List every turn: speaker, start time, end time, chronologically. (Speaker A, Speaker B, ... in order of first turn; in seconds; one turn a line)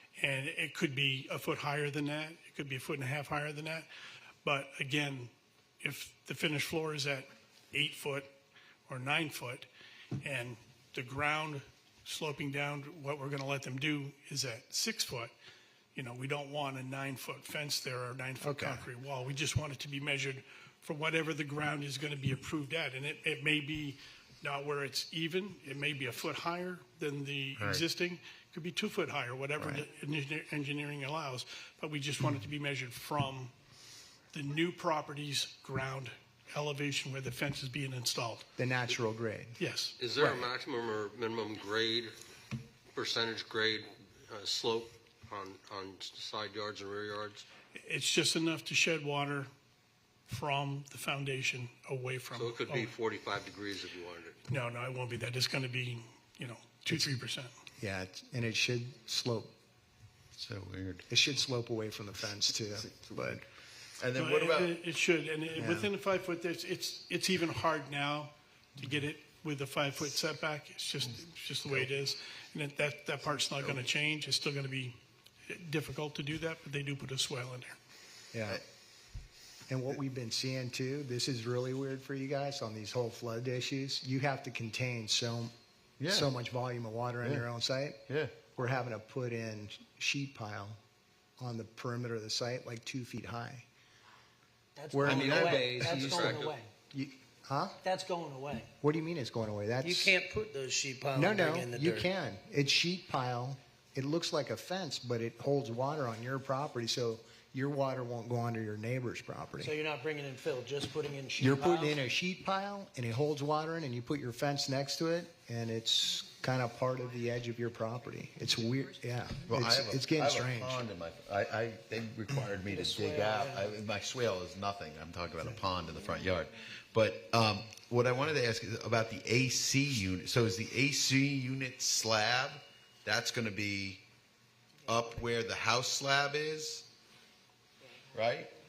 Speaker A: 0.2-3.9
Speaker A: 4.4-8.3
Speaker A: 8.9-9.7
Speaker A: 10.2-15.3
Speaker A: 15.9-33.5
Speaker B: 18.4-18.9
Speaker C: 27.6-27.9
Speaker C: 29.6-29.9
Speaker A: 34.3-38.5
Speaker B: 38.6-39.6
Speaker A: 39.6-40.0
Speaker D: 40.0-42.2
Speaker B: 40.2-40.5
Speaker D: 42.9-47.5
Speaker A: 47.8-49.5
Speaker A: 50.3-52.9
Speaker D: 52.3-54.4
Speaker A: 54.5-57.5
Speaker B: 56.9-57.1
Speaker B: 57.8-59.5
Speaker C: 60.4-61.1
Speaker B: 61.1-63.4
Speaker C: 62.7-63.4
Speaker C: 64.0-64.8
Speaker A: 64.2-75.0
Speaker B: 65.5-65.9
Speaker A: 75.5-77.8
Speaker B: 78.3-78.6
Speaker B: 79.7-85.5
Speaker C: 86.0-86.3
Speaker B: 86.1-90.8
Speaker C: 88.1-88.4
Speaker B: 91.4-93.7
Speaker E: 94.8-96.7
Speaker B: 94.9-95.9
Speaker C: 95.0-96.3
Speaker D: 95.1-96.6
Speaker B: 96.9-97.8
Speaker E: 97.8-98.7
Speaker B: 98.8-100.2
Speaker E: 99.8-102.1
Speaker B: 101.2-109.7
Speaker E: 109.6-112.0
Speaker B: 111.4-120.8
Speaker C: 119.5-134.0
Speaker E: 122.7-123.7
Speaker C: 134.9-136.8
Speaker C: 138.1-138.5